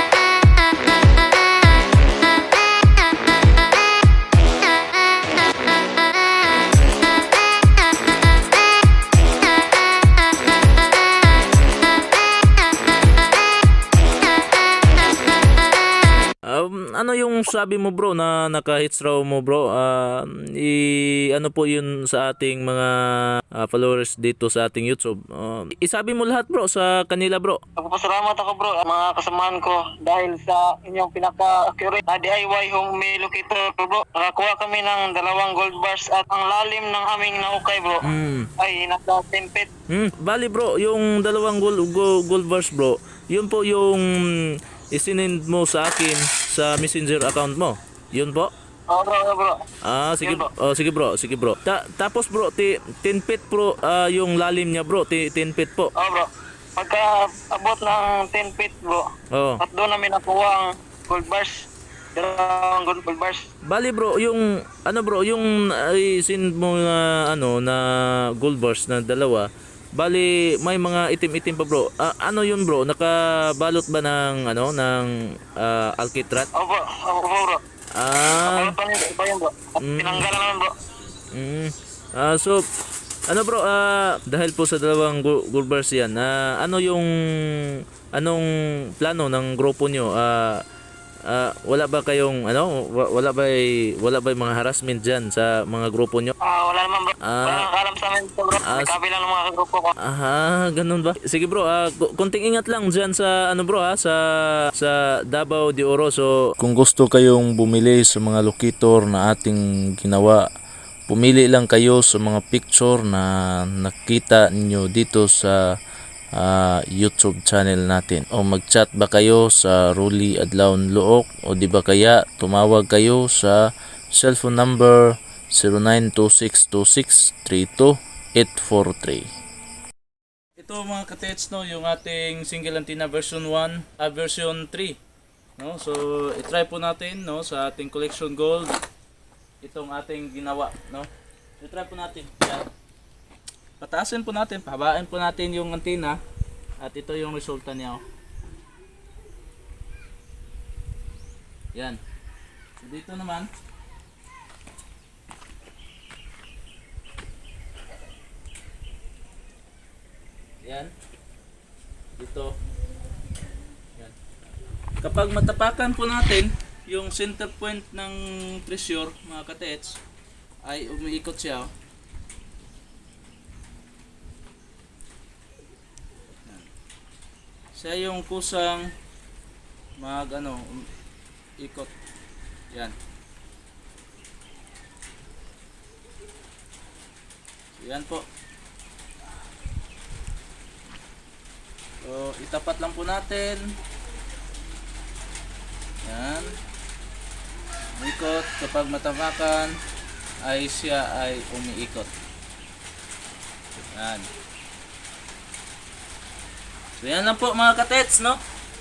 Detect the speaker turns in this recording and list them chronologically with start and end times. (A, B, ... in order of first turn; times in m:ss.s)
0:16.4-0:27.6 A
0:27.8-0:38.0 B
0:38.0-0:38.5 A
0:38.6-0:39.7 B
0:39.9-0:48.5 A
0:48.9-0:49.6 B
0:49.8-0:55.9 A
0:50.2-0:50.5 B
0:56.0-0:59.1 B
0:59.3-0:59.6 A
0:59.6-1:03.4 B
1:03.6-1:07.8 A
1:08.3-1:16.5 A
1:16.6-1:17.6 B
1:18.0-1:18.7 A
1:18.4-1:20.7 B
1:19.8-1:20.3 A
1:21.3-1:22.6 A
1:23.3-1:30.6 A
1:31.3-1:36.4 A
1:36.4-1:39.9 B
1:37.2-1:37.7 A
1:38.6-1:38.9 A
1:40.0-1:44.2 A
1:44.7-1:50.4 A
1:51.1-1:55.7 A
1:56.3-2:03.6 A
2:04.1-2:09.3 A
2:10.6-2:15.0 A
2:15.6-2:18.7 A
2:19.6-2:21.1 A
2:21.6-2:22.6 A
2:23.8-2:26.2 A
2:26.8-2:28.0 A
2:31.7-2:32.0 A
2:32.8-2:33.5 A
2:40.6-2:40.9 A
2:42.2-2:42.5 A
2:45.0-2:50.0 A
2:50.6-2:51.7 A
2:57.7-2:58.9 A
3:00.0-3:00.8 A
3:01.6-3:01.9 A
3:07.8-3:08.2 A
3:12.0-3:13.7 A
3:16.0-3:16.5 A
3:17.9-3:19.7 A
3:20.4-3:22.1 A
3:23.9-3:24.3 A
3:27.0-3:28.4 A